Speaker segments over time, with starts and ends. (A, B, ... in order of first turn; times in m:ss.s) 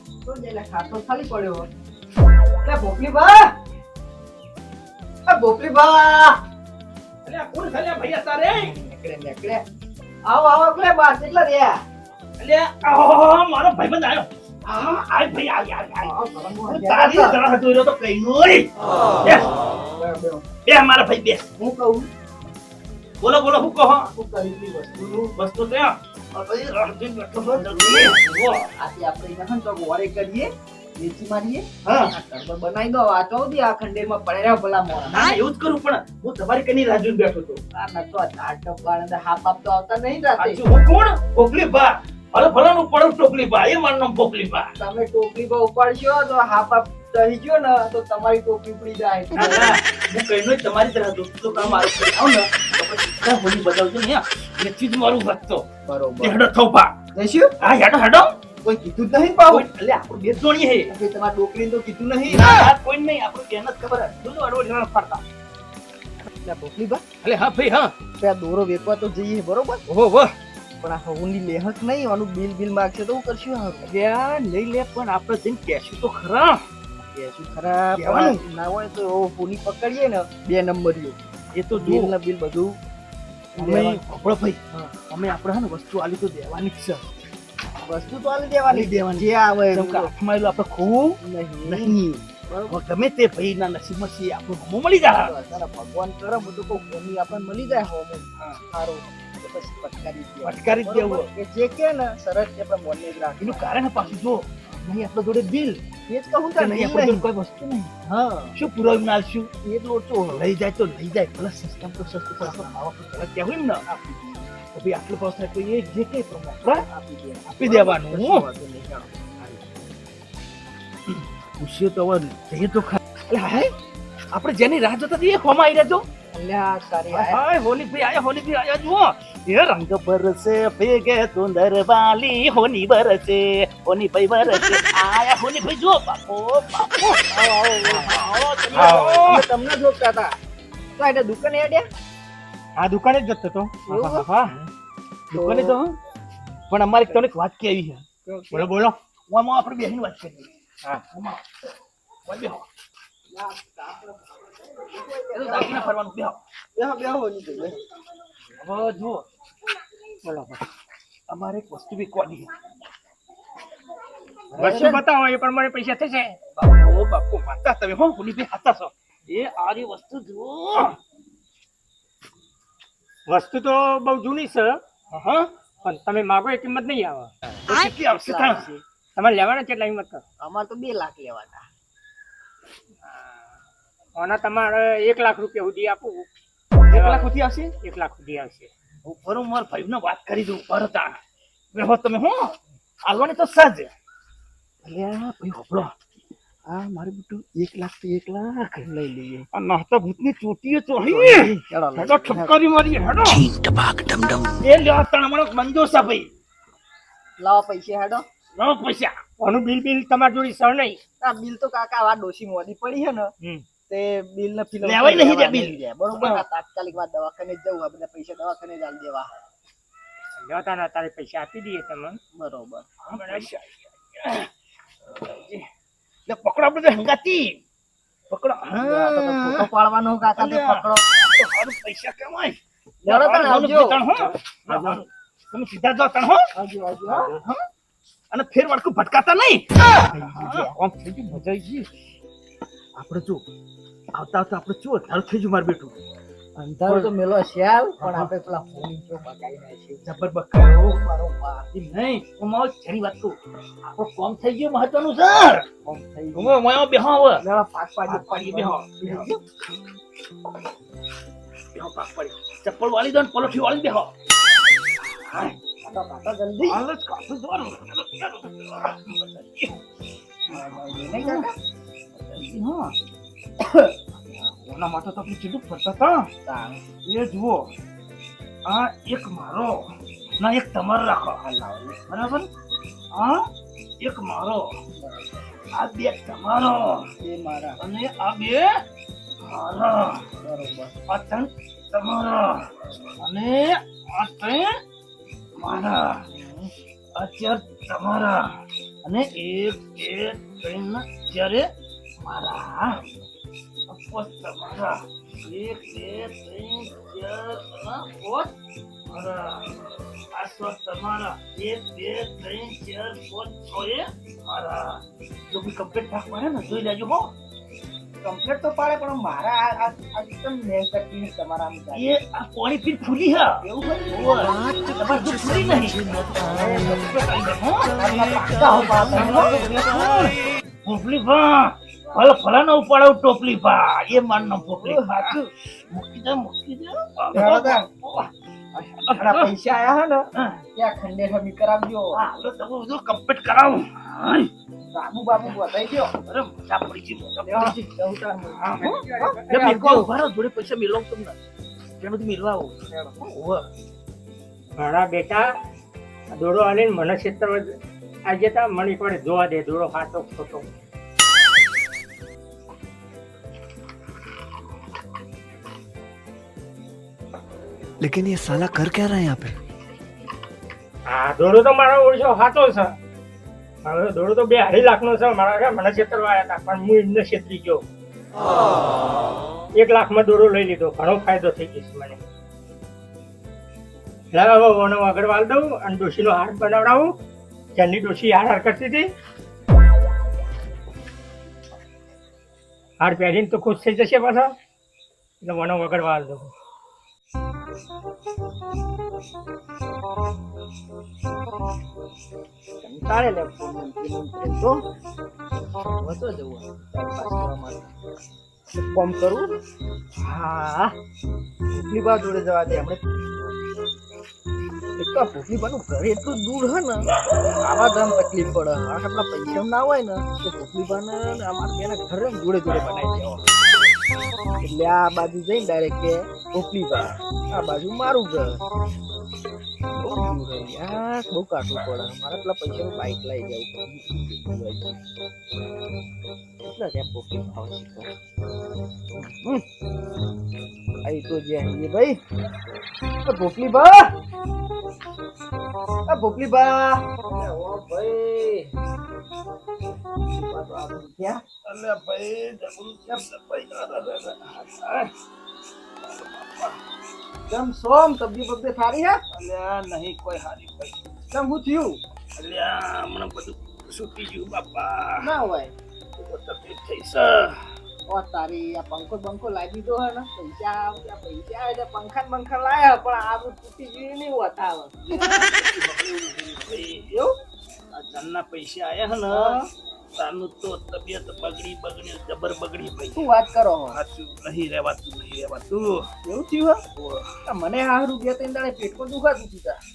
0:00.2-0:01.7 A
0:02.6-0:03.5 A
0:05.3-0:06.4 A
0:07.2-0:08.8 B
0:08.6-0:09.6 A
0:10.3-0:11.8 A
0:12.4-0:16.1 B
0:16.0-0:17.4 A
0:16.7-0:18.7 B
0:19.2-0:19.6 B
0:19.9-0:20.5 A
0:20.7-0:21.5 B
0:21.6-0:22.1 A
0:23.2-0:24.1 B
0:24.1-0:25.3 A
0:25.0-0:28.7 B
0:27.4-0:28.2 A
0:28.7-0:35.2 A
0:31.8-0:32.1 B
0:35.0-0:37.6 B
0:37.7-0:40.6 A
0:40.4-0:44.7 B
0:44.8-0:49.8 A
0:49.4-0:55.7 B
0:51.5-0:52.4 A
0:55.9-0:56.4 A
0:56.2-0:57.0 B
0:57.2-0:57.5 A
0:57.6-0:58.4 B
0:58.6-0:59.7 A
0:59.5-1:00.9 B
1:00.9-1:02.5 A
1:02.3-1:05.2 B
1:06.4-1:07.0 A
1:07.2-1:08.0 B
1:08.2-1:09.8 A
1:09.9-1:10.3 B
1:10.8-1:13.9 A
1:13.8-1:16.6 B
1:17.0-1:21.2 A
1:18.0-1:18.4 B
1:21.5-1:22.2 B
1:21.7-1:22.8 A
1:23.6-1:27.0 B
1:23.6-1:24.0 A
1:27.8-1:30.1 A
1:28.7-1:32.0 B
1:31.2-1:32.8 A
1:32.7-1:35.3 B
1:35.2-1:43.7 A
1:40.4-1:41.3 B
1:43.4-1:45.8 B
1:46.1-1:47.3 A
1:46.6-1:47.9 B
1:48.0-1:48.6 A
1:48.5-1:49.5 B
1:49.6-1:50.5 A
1:50.3-1:53.9 B
1:52.4-1:52.7 A
1:53.9-1:54.5 A
1:54.7-1:56.9 B
1:56.8-1:59.1 A
1:57.5-1:58.4 B
2:01.1-2:03.0 B
2:03.3-2:03.6 A
2:04.3-2:06.1 B
2:06.3-2:07.4 A
2:07.1-2:17.2 B
2:17.3-2:18.2 A
2:17.8-2:19.5 B
2:18.7-2:20.4 A
2:21.0-2:21.9 A
2:22.8-2:24.6 C
2:23.9-2:24.2 A
2:23.9-2:24.2 B
2:25.3-2:26.0 B
2:25.3-2:25.8 A
2:26.7-2:30.5 B
2:28.3-2:28.6 A
2:31.1-2:31.4 B
2:32.3-2:32.7 B
2:33.3-2:36.0 A
2:35.3-2:36.4 B
2:36.8-2:37.8 A
2:38.5-2:39.3 B
2:40.2-2:40.6 C
2:41.3-2:42.5 B
2:44.5-2:45.0 A
2:44.6-2:46.4 C
2:46.6-2:51.0 B
2:53.3-2:54.8 C
2:55.1-2:55.5 B
2:55.8-2:57.3 C
2:57.7-2:58.7 B
2:58.1-2:58.8 A
2:59.2-3:00.2 C
3:00.4-3:01.7 A
3:03.1-3:03.4 C
3:04.2-3:06.3 C
3:06.9-3:07.7 B
3:06.9-3:08.7 C
3:09.0-3:11.2 B
3:11.7-3:13.9 B
3:14.8-3:15.9 B
3:16.7-3:18.9 B
3:18.8-3:19.5 A
3:19.5-3:23.4 B
3:21.1-3:22.6 A
3:23.3-3:24.6 D
3:24.6-3:26.3 B
3:27.4-3:28.3 A
3:28.6-3:29.2 B
3:29.4-3:31.0 C
3:31.2-3:33.3 A
3:33.9-3:39.3 A
3:34.8-3:36.4 B
3:40.4-3:42.2 C
3:42.3-3:42.9 A
3:43.0-3:44.5 B
3:45.0-3:45.7 B
3:46.3-3:47.6 B
3:48.3-3:49.7 B
3:48.8-3:51.0 A
3:50.2-3:56.5 B
3:53.0-3:54.0 A
3:54.7-3:55.0 A
3:56.6-3:57.4 A
3:57.1-3:57.6 B
3:58.3-4:01.9 B
4:00.0-4:00.7 A
4:03.0-4:03.4 B
4:04.1-4:06.0 B
4:06.6-4:11.7 A
4:08.0-4:08.3 B
4:10.0-4:11.0 B
4:11.7-4:15.7 B
4:15.8-4:16.6 A
4:16.3-4:17.4 B
4:17.4-4:19.4 A
4:18.1-4:19.3 B
4:21.7-4:24.1 B
4:25.2-4:25.6 B
4:25.8-4:26.8 A
4:26.7-4:29.8 B
4:30.5-4:31.6 A
4:30.5-4:31.5 B
4:32.2-4:33.0 B
4:33.6-4:33.9 A
4:34.3-4:36.3 B
4:36.4-4:36.8 A
4:37.0-4:37.7 B
4:38.7-4:39.8 B
4:40.4-4:41.4 B
4:41.4-4:42.0 A
4:42.1-4:42.5 B
4:43.1-4:43.5 B
4:44.0-4:44.7 B
4:45.0-4:45.3 A
4:45.7-4:47.1 B
4:47.2-4:47.8 A
4:47.8-4:48.7 B
4:49.4-4:50.2 B
4:50.4-4:50.9 A
4:51.1-4:54.8 B
4:55.6-4:56.2 B
4:56.3-4:56.7 A
4:57.2-4:58.5 B
4:59.0-5:01.7 B
5:02.2-5:03.0 B
5:03.9-5:08.5 B
5:09.1-5:17.3 B
5:18.2-5:22.1 A
5:21.9-5:35.4 B
5:23.6-5:24.5 A
5:26.4-5:27.0 A
5:28.0-5:29.5 A
5:34.7-5:35.5 A
5:35.9-5:38.3 B
5:37.3-5:37.9 A
5:38.8-5:39.5 B
5:39.1-5:42.2 A
5:40.4-5:40.6 B
5:42.1-5:44.5 B
5:44.9-5:46.1 A
5:46.2-5:47.8 B
5:47.4-5:50.1 A
5:48.6-5:48.9 B
5:48.8-5:49.7 C
5:49.5-5:51.4 B
5:52.0-5:53.7 B
5:52.9-5:53.2 A
5:54.8-5:55.5 C
5:56.3-5:57.7 C
5:58.3-6:00.7 C
6:08.0-6:09.6 D
6:11.1-6:13.0 C
6:13.8-6:17.8 C
6:19.8-6:22.2 C
6:24.3-6:27.1 C
6:27.8-6:29.1 C
6:33.0-6:34.5 C
6:35.4-6:36.5 C
6:42.8-6:44.8 A
6:46.0-6:47.9 A
6:48.7-6:49.6 A
6:50.2-6:51.0 A
6:51.7-6:53.0 A
6:55.0-7:03.5 A
7:04.6-7:08.6 A
7:10.0-7:15.0 A
7:16.6-7:18.1 A
7:19.2-7:19.6 A
7:21.0-7:22.2 A
7:23.2-7:24.1 A
7:26.1-7:28.7 A
7:30.2-7:31.4 A
7:31.6-7:35.1 B
7:36.0-7:36.8 B
7:37.5-7:39.2 A
7:39.3-7:41.0 B
7:41.3-7:42.0 A
7:42.4-7:45.3 B
7:45.2-7:45.7 A
7:46.2-7:47.7 B
7:48.1-7:55.1 A
7:55.1-7:57.1 B
7:57.1-7:57.4 A
7:57.9-7:59.6 B
7:59.3-7:59.7 A
8:00.2-8:03.3 B
8:03.2-8:04.0 A
8:03.9-8:06.1 B
8:06.2-8:06.8 A
8:07.0-8:07.4 B
8:07.5-8:09.8 A